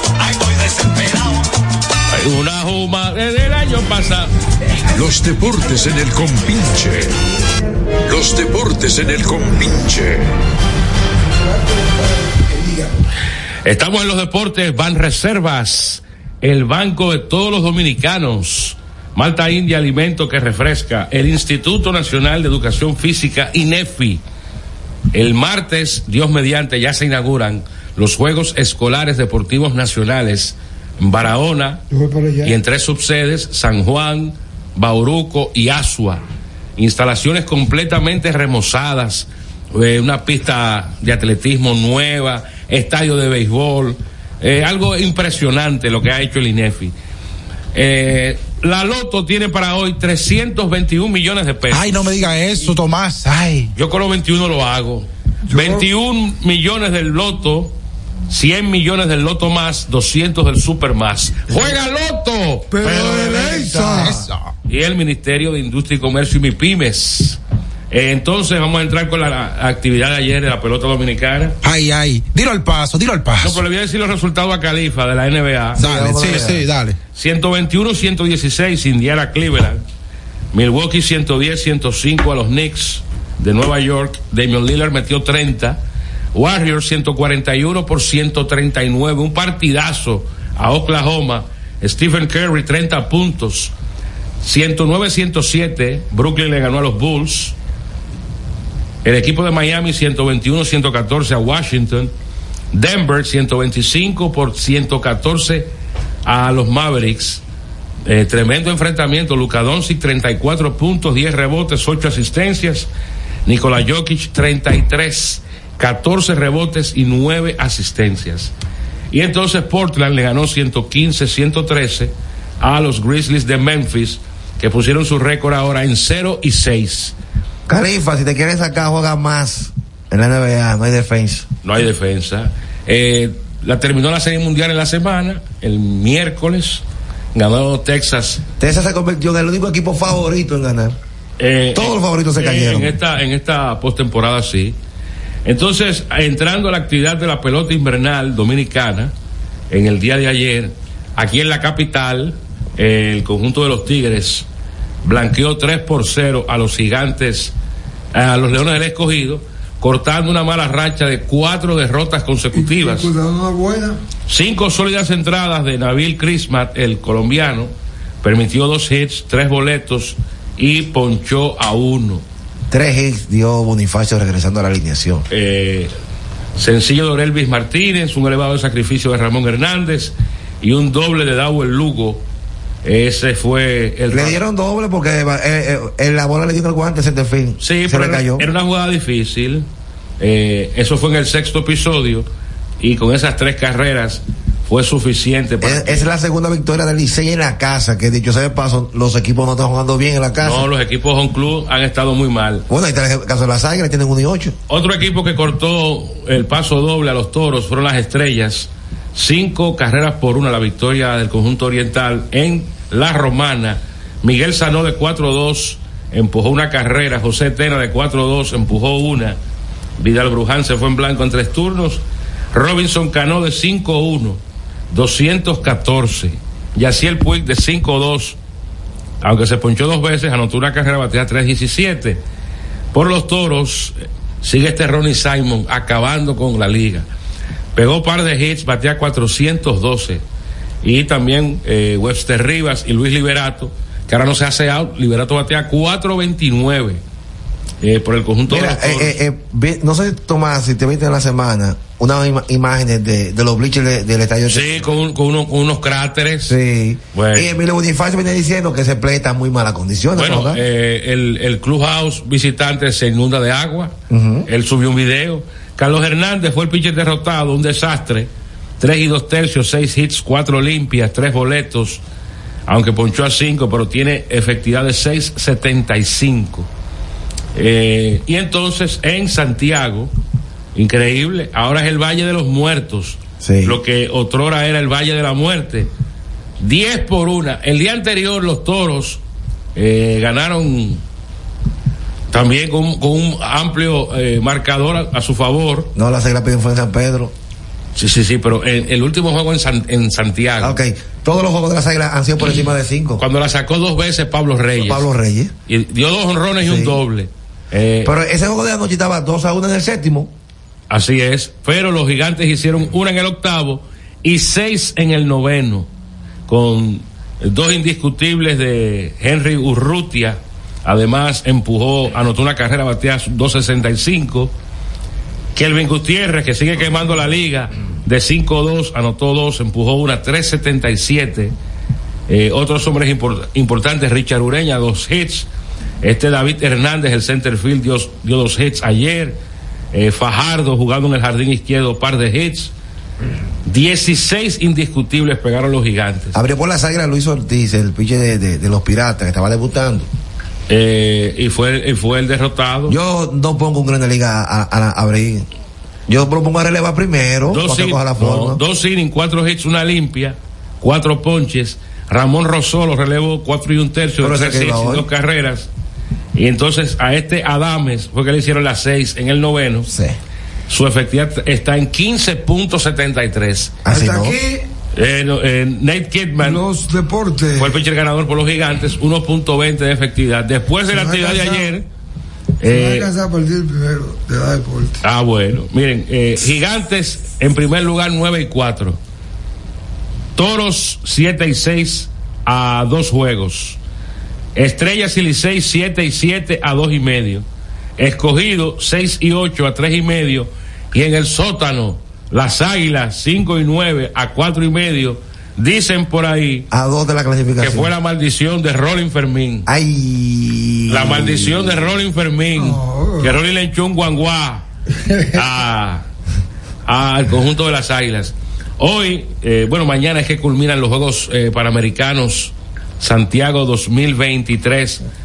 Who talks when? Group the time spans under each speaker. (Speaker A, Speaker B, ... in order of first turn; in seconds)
Speaker A: 2.1-4.3, 13.6-24.2, 25.1-31.8, 32.4-36.2, 36.8-46.9, 47.7-52.1, 53.7-57.7, 58.3-63.9, 64.7-67.4, 67.9-71.6, 73.4-75.8, 77.1-79.8, 80.5-85.8, 86.3-93.7, 94.4-97.5, 99.0-102.1, 102.7-105.7, 106.2-107.4, 108.0-112.9, 113.5-118.5, 119.1-127.1, 131.6-136.8, 137.3-138.4, 141.4-144.8, 145.4-149.1, 149.7-154.4, 155.0-157.5, 158.1-163.1, 164.3-167.7, 168.2-172.2, 175.3-175.9, 176.6-182.2, 182.8-184.4, 187.6-189.7, 190.2-192.3, 192.8-196.1, 200.4-202.7, 204.7-219.4, 220.0-228.4, 229.2-232.2, 232.9-237.1, 237.7-240.2, 240.8-247.0, 247.8-249.2, 254.5-256.6, 257.1-257.5, 260.1-263.9, 264.5-272.0, 272.7-276.7, 277.5-280.1, 280.7-285.9, 286.6-289.2, 289.8-291.0, 292.3-295.9, 297.9-300.8, 303.2-305.1, 305.7-308.1, 310.9-315.9, 316.5-324.5, 325.5-331.5, 332.3-335.5, 336.0-339.4, 339.9-342.7, 343.6-346.4, 350.7-353.0, 357.5-365.7, 366.3-369.9, 370.7-373.7, 374.9-376.6, 377.6-381.9, 382.6-383.1, 385.0-389.0, 390.4-393.8, 394.6-397.4, 398.0-406.7, 407.6-409.7, 410.9-414.6, 415.3-416.0, 416.9-425.0
Speaker B: 4.9-7.2, 8.1-10.3
Speaker C: 11.4-12.9, 31.9-32.6, 55.4-55.9, 62.7-64.2, 162.5-164.0, 373.9-374.7, 376.4-377.8, 380.9-381.7, 382.6-385.0, 412.5-413.4, 415.0-415.3
Speaker D: 51.7-53.7, 64.0-64.5, 71.6-73.6, 75.8-77.0
Speaker E: 63.5-64.3, 75.7-76.7, 127.7-131.5, 138.6-140.9, 141.7-143.0, 172.7-175.2, 184.1-188.5, 195.6-200.7, 202.7-204.5, 248.5-254.9, 256.5-260.6, 264.1-264.5, 283.4-283.8, 295.9-297.3, 300.6-303.2, 304.8-305.5, 306.6-307.0, 308.0-310.3, 346.3-350.1, 352.9-355.5, 356.1-358.6, 364.2-365.1, 369.9-370.1, 373.8-374.4, 406.7-407.9, 409.6-411.9